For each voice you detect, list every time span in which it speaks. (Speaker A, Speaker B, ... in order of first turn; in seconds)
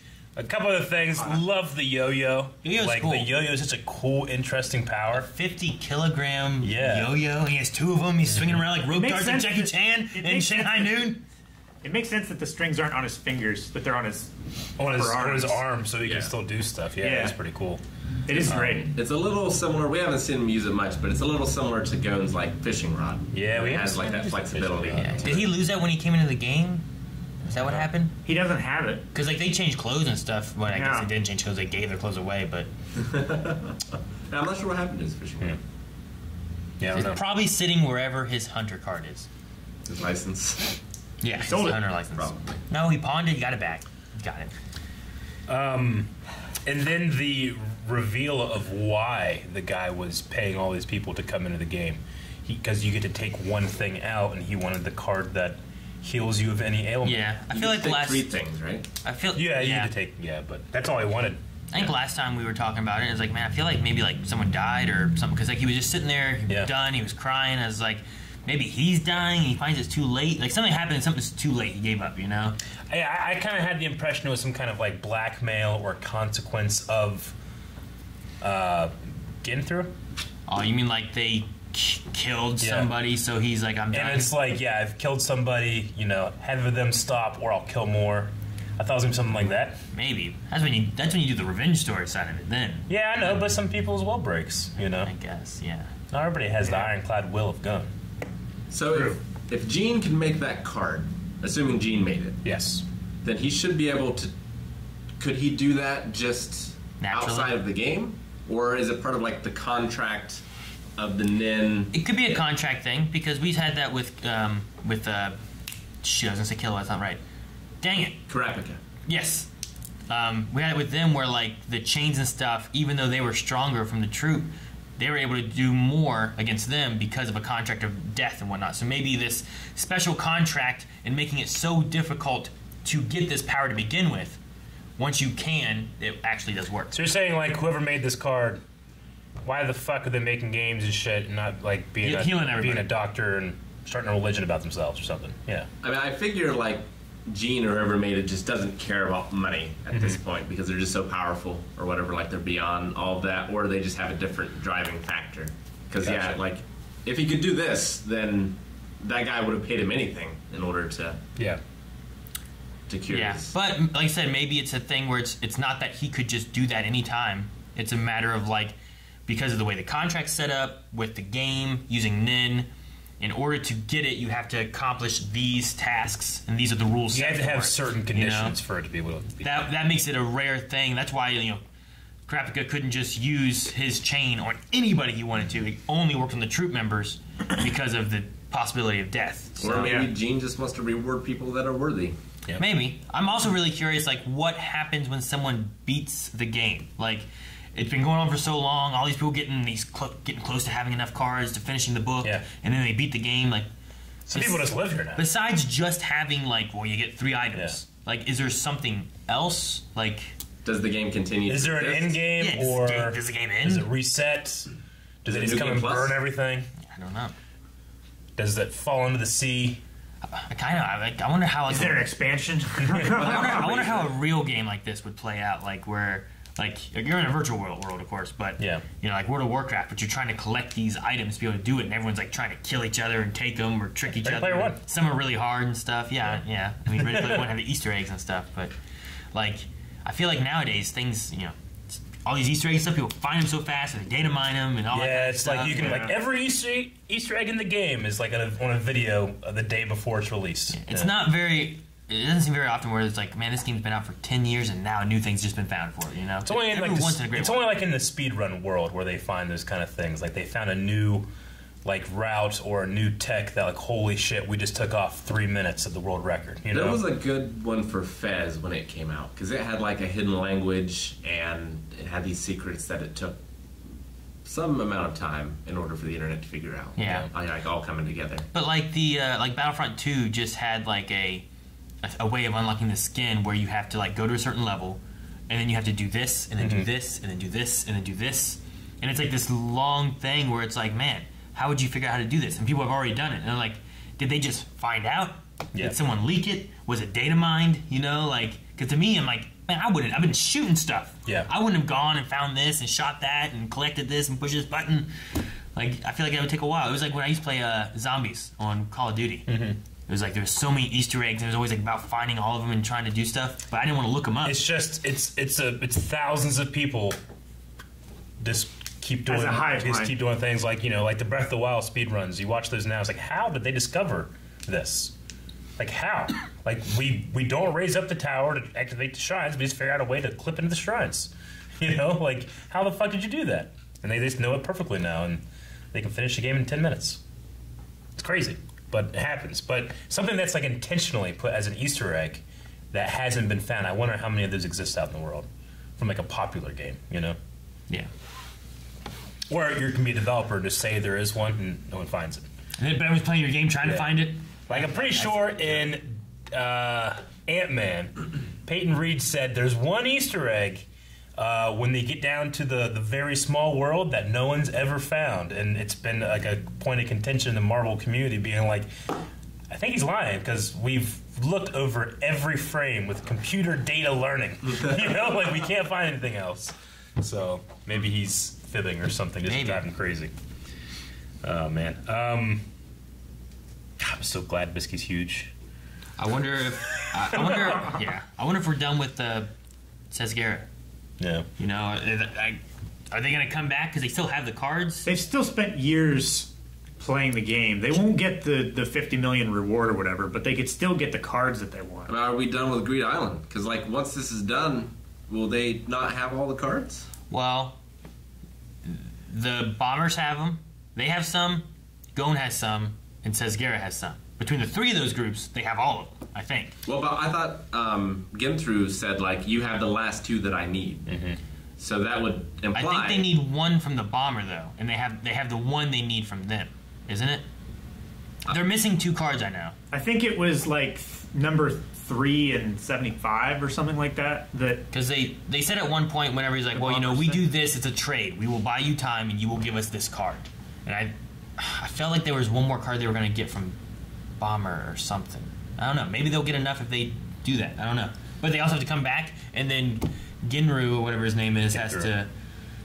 Speaker A: 0.4-5.3, 6.6-7.2, 14.8-17.8, 18.4-18.9, 23.3-25.5, 27.5-27.9, 36.8-37.2, 45.5-46.1, 46.7-57.2, 59.4-61.9, 72.9-77.4, 78.4-79.9, 82.6-82.9, 83.9-89.8, 92.9-95.1, 96.1-97.9, 102.4-102.8, 136.9-138.6, 139.4-145.7, 149.9-150.2, 156.0-156.4, 177.1-179.7, 204.3-205.2, 211.5-214.7, 215.2-216.7, 218.4-219.8, 222.9-223.2, 228.6-228.9, 234.2-234.8, 237.0-237.5, 244.9-251.2, 256.4-261.3, 261.8-267.0, 277.0-277.3, 286.6-286.9, 309.5-309.8, 314.4-317.2, 318.4-325.1, 325.8-337.2, 338.2-345.5, 346.0-347.4, 349.5-352.5, 353.8-368.9, 369.7-380.3, 381.4-382.6, 384.0-385.5, 391.2-391.5, 421.1-421.4, 451.7-452.1
Speaker B: 2.6-3.3, 5.1-11.2, 25.0-26.8, 27.4-28.2, 29.1-32.7, 36.9-39.3, 41.2-44.5, 57.0-58.3, 59.0-59.9, 61.7-72.6, 80.5-84.3, 89.9-93.6, 94.8-95.9, 107.0-107.6, 111.9-115.4, 116.0-117.2, 117.8-118.2, 119.1-119.5, 120.1-134.4, 135.0-136.9, 142.0-142.9, 163.1-168.8, 169.3-172.7, 173.2-178.6, 179.4-181.6, 182.3-190.0, 192.6-203.7, 204.3-210.4, 212.4-213.9, 216.9-217.3, 220.3-222.1, 223.2-238.7, 239.3-246.1, 250.7-257.6, 277.0-277.3, 278.5-281.4, 282.0-305.1, 305.7-309.5, 310.1-314.6, 352.8-355.9, 379.4-379.9, 386.2-389.5, 390.1-390.7, 391.6-395.1, 407.3-407.8, 408.9-416.7, 422.8-427.4, 428.5-429.8, 434.9-443.8, 444.4-452.3
Speaker C: 8.9-11.1, 11.8-15.6, 17.0-17.4, 18.3-18.9, 28.2-29.1, 30.7-31.1, 41.4-41.8, 98.9-99.2, 189.7-190.1, 221.7-224.0, 245.7-246.1, 319.3-320.1, 395.1-402.1, 429.9-434.9, 436.7-437.5
Speaker D: 16.0-16.3, 18.9-25.5, 33.0-35.6, 39.9-40.8, 42.2-42.6, 57.5-58.9, 98.7-102.4, 103.2-104.3, 105.2-110.4, 111.0-111.9, 118.3-118.8, 145.8-161.2, 162.9-163.6, 189.6-192.2, 210.6-212.2, 215.3-216.2, 223.6-223.9, 266.7-273.4, 274.4-278.5, 402.1-407.1, 416.9-421.1, 421.8-423.3